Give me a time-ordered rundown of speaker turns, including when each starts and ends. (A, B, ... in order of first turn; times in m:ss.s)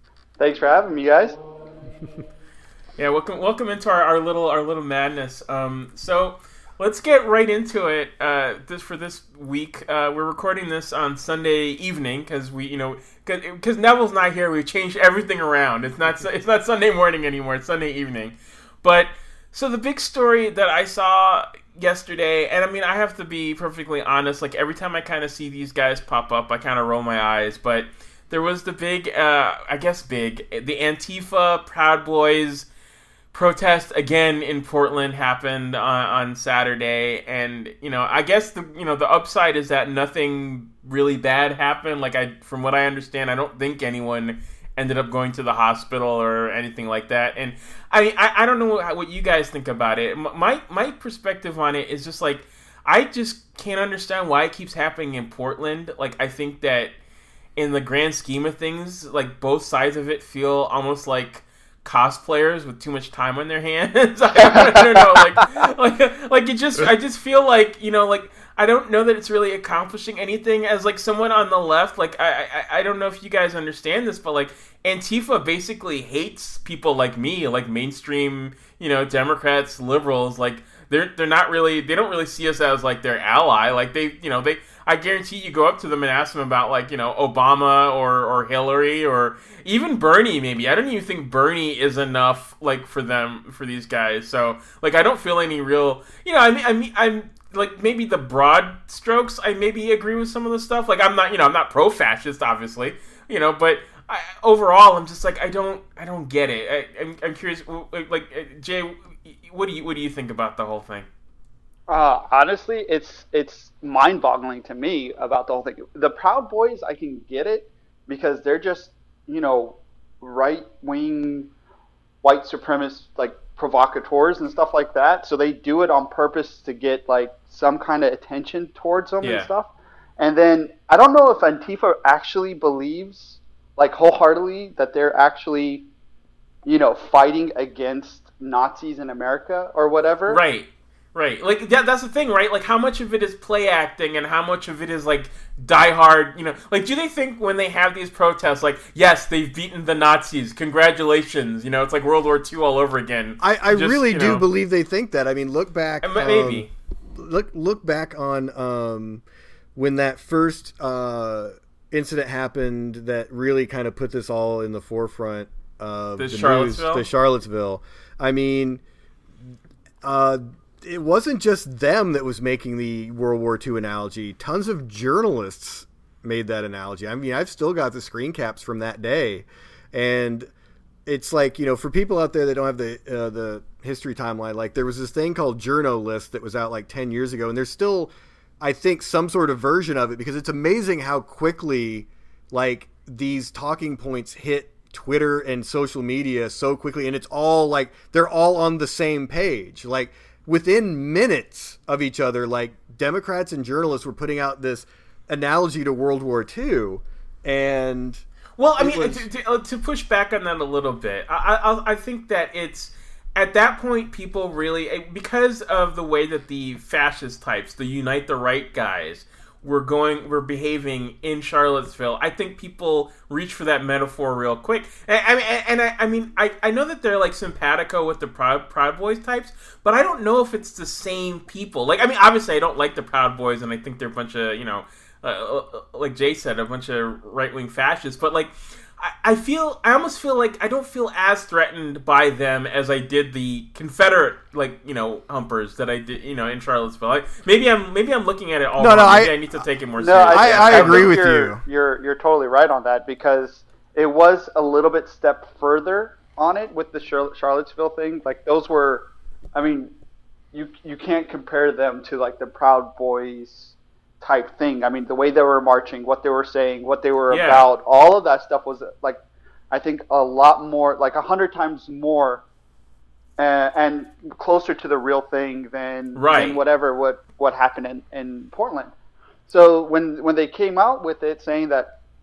0:00.4-0:01.4 A
0:03.0-0:32.7 B
0:33.3-0:56.9 B
0:57.6-1:51.1 B
1:04.5-1:05.1 A
1:51.9-2:01.5 A
2:02.2-2:15.9 A
2:09.2-2:09.5 B
2:16.7-2:20.4 A
2:20.3-2:34.4 B
2:33.4-2:39.2 C
2:36.0-2:36.7 B
2:39.8-2:48.8 C
2:46.2-2:47.1 B
2:50.0-3:00.5 C
3:01.1-3:28.2 C
3:28.6-4:11.1 B
3:28.8-3:29.2 C
4:08.8-4:09.3 C
4:10.0-4:19.9 A
4:10.3-4:11.6 C
4:20.5-4:29.2 A
4:27.3-4:27.6 B
4:29.7-4:32.4 A
4:33.4-4:38.9 A
4:36.2-4:36.6 B
4:39.5-4:42.0 A